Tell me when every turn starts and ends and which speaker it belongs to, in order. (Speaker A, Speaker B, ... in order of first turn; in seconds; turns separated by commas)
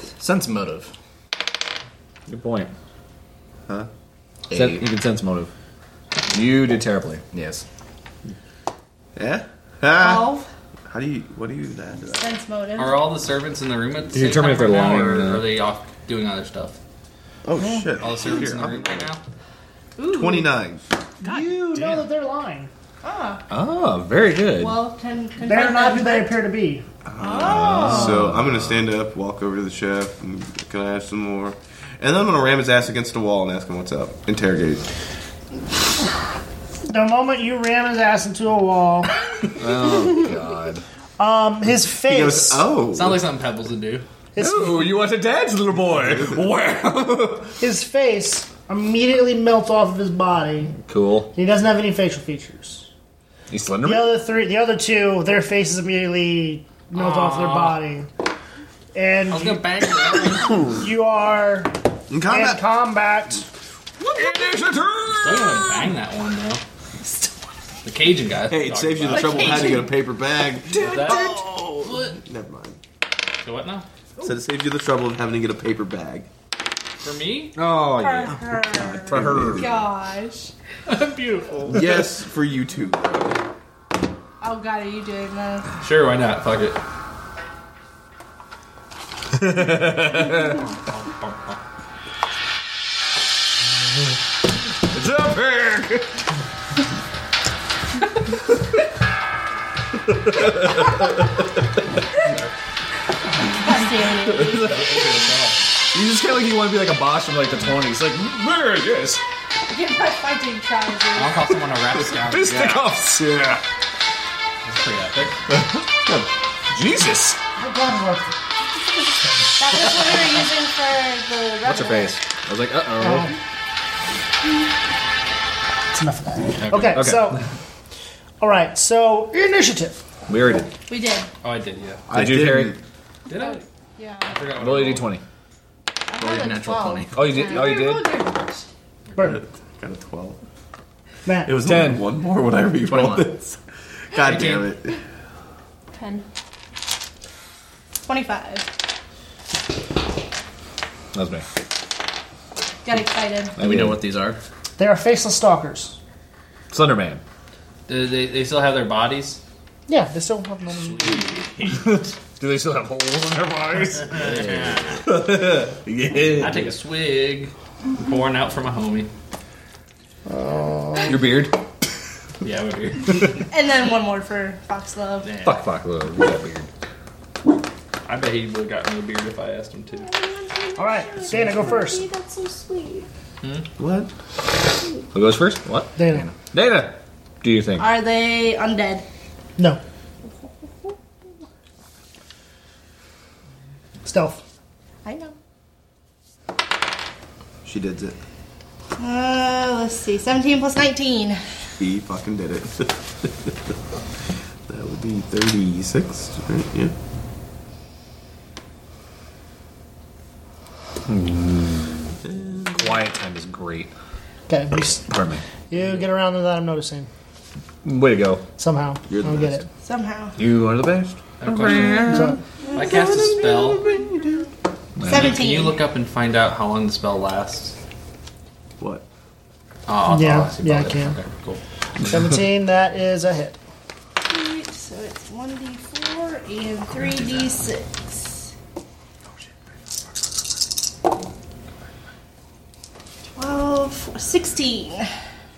Speaker A: 0.2-0.9, Speaker B: 2.3-2.7, Speaker A: 4.5-4.8, Speaker B: 4.5-5.5, Speaker B: 6.3-7.2, Speaker A: 7.3-7.6, Speaker C: 9.2-10.3, Speaker D: 9.9-10.5, Speaker C: 10.9-12.3, Speaker D: 12.1-13.1, Speaker E: 12.8-16.8, Speaker B: 14.1-15.5, Speaker C: 17.4-19.1, Speaker F: 17.6-17.9, Speaker E: 18.0-19.2, Speaker D: 20.0-20.5, Speaker C: 20.0-20.8, Speaker F: 21.2-22.7, Speaker B: 21.3-22.0, Speaker D: 23.0-23.4, Speaker B: 23.5-24.8, Speaker D: 24.5-26.4, Speaker F: 25.4-26.8, Speaker C: 27.1-34.8, Speaker D: 27.2-28.1, Speaker B: 27.3-28.8, Speaker F: 36.9-39.1, Speaker B: 39.5-40.8, Speaker F: 41.2-42.7, Speaker C: 42.0-43.3, Speaker E: 42.9-44.0, Speaker F: 44.3-45.0, Speaker B: 44.4-47.6, Speaker F: 47.6-50.8, Speaker B: 50.8-51.3, Speaker F: 51.3-52.9, Speaker B: 53.5-54.2, Speaker F: 53.8-58.1, Speaker E: 56.9-57.8, Speaker F: 58.9-59.8, Speaker E: 59.3-60.8, Speaker F: 60.5-61.8, Speaker C: 62.1-62.6, Speaker F: 62.3-63.5, Speaker B: 64.0-65.9, Speaker E: 65.2-66.6, Speaker E: 67.8-69.8, Speaker C: 68.5-72.8, Speaker G: 69.3-69.9, Speaker E: 70.8-72.2, Speaker B: 70.9-71.2, Speaker E: 73.4-73.8, Speaker C: 74.2-76.3, Speaker E: 77.0-77.5, Speaker B: 77.5-79.7, Speaker D: 77.9-80.5, Speaker C: 78.7-79.9, Speaker E: 80.9-81.7, Speaker C: 81.6-83.4, Speaker D: 84.4-85.7, Speaker E: 85.8-86.8, Speaker B: 89.3-90.6, Speaker E: 90.4-91.6, Speaker B: 94.8-96.1, Speaker B: 100.1-101.1, Speaker D: 103.5-104.8, Speaker B: 104.3-104.6, Speaker E: 104.5-105.6, Speaker B: 105.9-109.2, Speaker D: 109.7-111.4, Speaker E: 111.1-112.9, Speaker B: 112.2-113.6, Speaker E: 114.6-115.4, Speaker B: 115.5-117.4, Speaker F: 117.5-118.4, Speaker F: 119.2-119.5, Speaker D: 119.5-122.2, Speaker B: 121.6-123.3, Speaker F: 123.0-123.3, Speaker F: 125.9-127.5, Speaker E: 126.6-127.1, Speaker B: 126.9-127.4, Speaker F: 128.4-130.0, Speaker B: 130.3-130.7, Speaker D: 130.9-131.3, Speaker E: 131.4-132.0, Speaker C: 132.1-132.8, Speaker B: 132.1-132.8, Speaker E: 133.3-133.6, Speaker G: 133.3-134.5, Speaker E: 134.2-135.1, Speaker B: 134.6-135.2, Speaker G: 136.1-138.4, Speaker A: 136.2-137.3, Speaker B: 137.1-138.1, Speaker D: 137.5-138.6, Speaker C: 139.2-140.4, Speaker F: 141.2-141.6, Speaker C: 141.4-143.6, Speaker B: 141.6-142.1, Speaker A: 142.9-143.2, Speaker C: 144.1-145.0, Speaker E: 144.2-144.7, Speaker G: 145.9-146.2, Speaker D: 148.1-148.7, Speaker B: 151.1-151.5, Speaker D: 152.8-153.6, Speaker A: 153.6-154.4, Speaker B: 153.6-154.0, Speaker F: 154.8-156.0, Speaker B: 156.7-157.2, Speaker E: 157.9-159.4, Speaker F: 159.9-161.3, Speaker E: 160.9-161.9, Speaker B: 161.7-166.7, Speaker E: 164.1-165.0, Speaker E: 166.4-169.1, Speaker F: 170.3-171.2, Speaker B: 171.0-171.6, Speaker E: 172.4-173.4, Speaker D: 173.5-175.3, Speaker E: 175.2-175.6, Speaker B: 175.4-176.7, Speaker E: 178.0-180.1, Speaker G: 179.9-183.1, Speaker F: 180.8-182.0, Speaker E: 183.4-183.7, Speaker C: 183.8-184.1, Speaker B: 185.1-185.7, Speaker A: 185.7-186.3, Speaker F: 186.0-186.3, Speaker B: 186.5-187.9, Speaker D: 187.8-189.0, Speaker F: 194.0-194.4, Speaker D: 195.0-195.3, Speaker C: 197.6-198.2, Speaker D: 199.0-201.4, Speaker C: 201.8-203.3, Speaker C: 204.7-206.9, Speaker B: 211.1-212.2, Speaker C: 212.3-212.9, Speaker B: 212.7-213.9, Speaker F: 214.5-215.1, Speaker B: 215.0-215.4, Speaker F: 215.7-217.1, Speaker B: 217.8-218.4, Speaker F: 218.6-219.7, Speaker C: 219.1-219.6, Speaker D: 219.8-220.4, Speaker B: 220.4-222.4, Speaker E: 221.4-223.8, Speaker F: 222.1-222.4, Speaker C: 222.8-224.5, Speaker B: 225.0-225.4, Speaker D: 225.0-225.8, Speaker E: 225.1-227.7, Speaker C: 228.8-229.0, Speaker E: 229.9-231.6, Speaker F: 230.1-231.1, Speaker F: 232.0-233.6, Speaker D: 234.2-238.5, Speaker D: 243.3-245.1